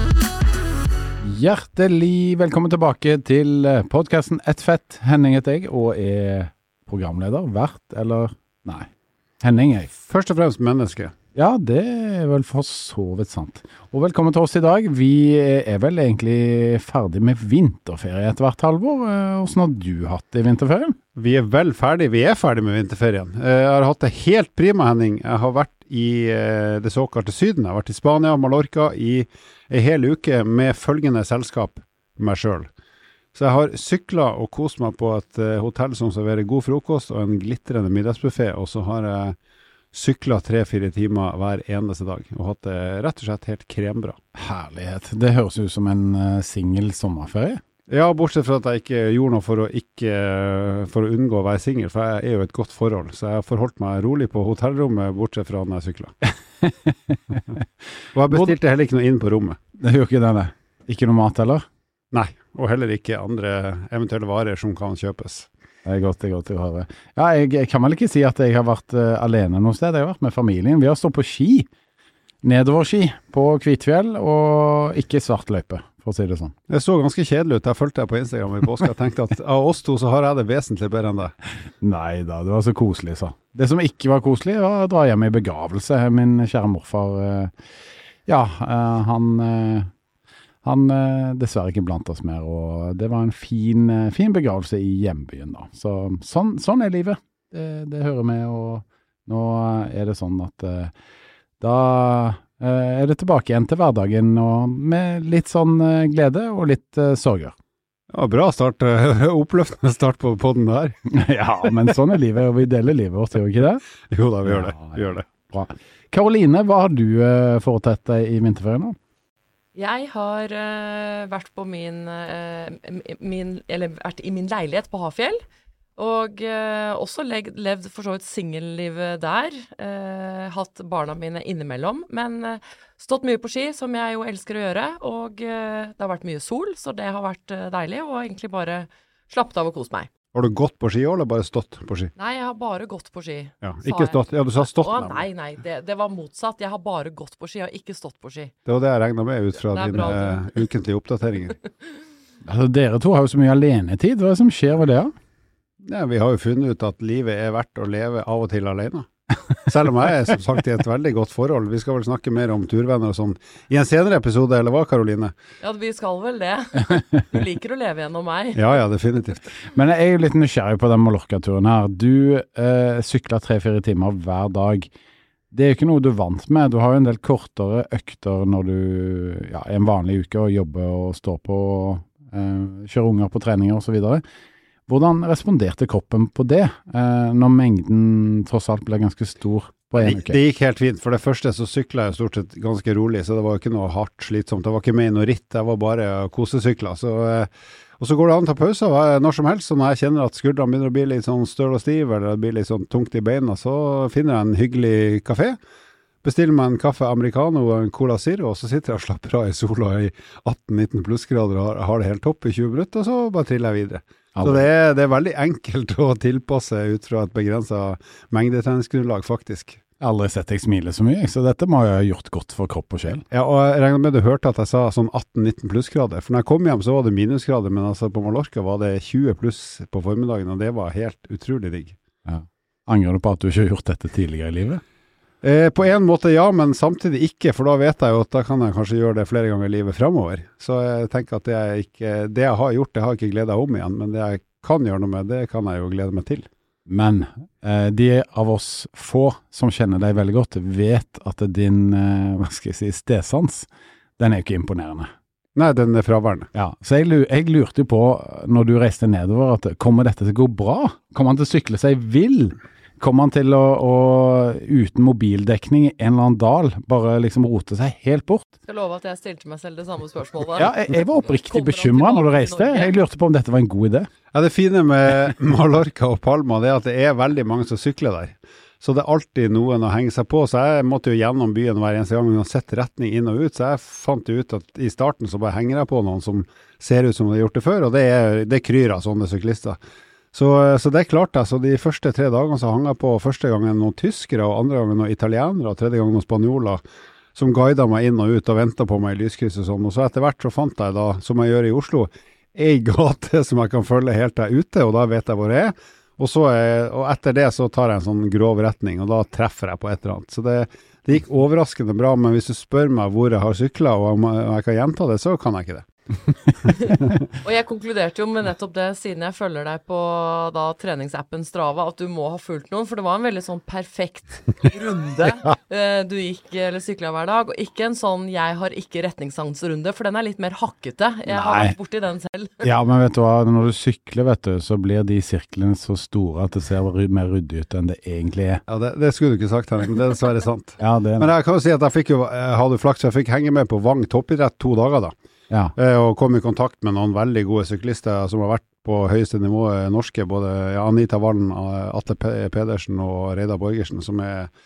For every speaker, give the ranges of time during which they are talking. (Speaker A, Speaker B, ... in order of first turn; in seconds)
Speaker A: 1.2-8.9, 9.4-9.9, 11.3-21.0, 44.3-47.6, 56.6-57.6, 59.8-61.7, 65.8-71.7, 72.4-76.5, 81.8-87.5, 88.2-89.9, 90.6-100.9, 101.6-107.6, 111.1-113.8, 114.4-119.0, 152.4-155.1, 169.7-174.9, 175.5-184.2, 184.9-190.4, 214.3-214.7, 220.0-223.2, 232.2-234.8, 246.8-255.1, 256.5-268.5, 270.6-274.1, 331.3-331.8, 332.6-338.6, 340.8-341.3
Speaker B: 10.1-11.1, 21.2-32.7, 33.3-39.4, 39.9-44.2, 47.9-56.1, 58.1-59.6, 62.1-65.5, 76.7-81.3, 108.1-111.0, 114.1-115.3, 140.3-142.1, 143.6-145.3, 148.7-151.6, 155.8-159.1, 159.7-165.3, 168.5-169.5, 190.0-205.6, 206.2-219.8, 223.1-232.0, 235.4-246.5, 255.5-256.5, 274.3-289.8, 290.3-296.8, 297.4-315.9, 338.7-345.1, 345.8-354.5
Speaker C: 119.8-125.4, 126.0-140.1, 142.2-148.5, 149.7-150.6, 165.6-168.8, 268.6-270.7, 271.2-272.9, 316.7-332.7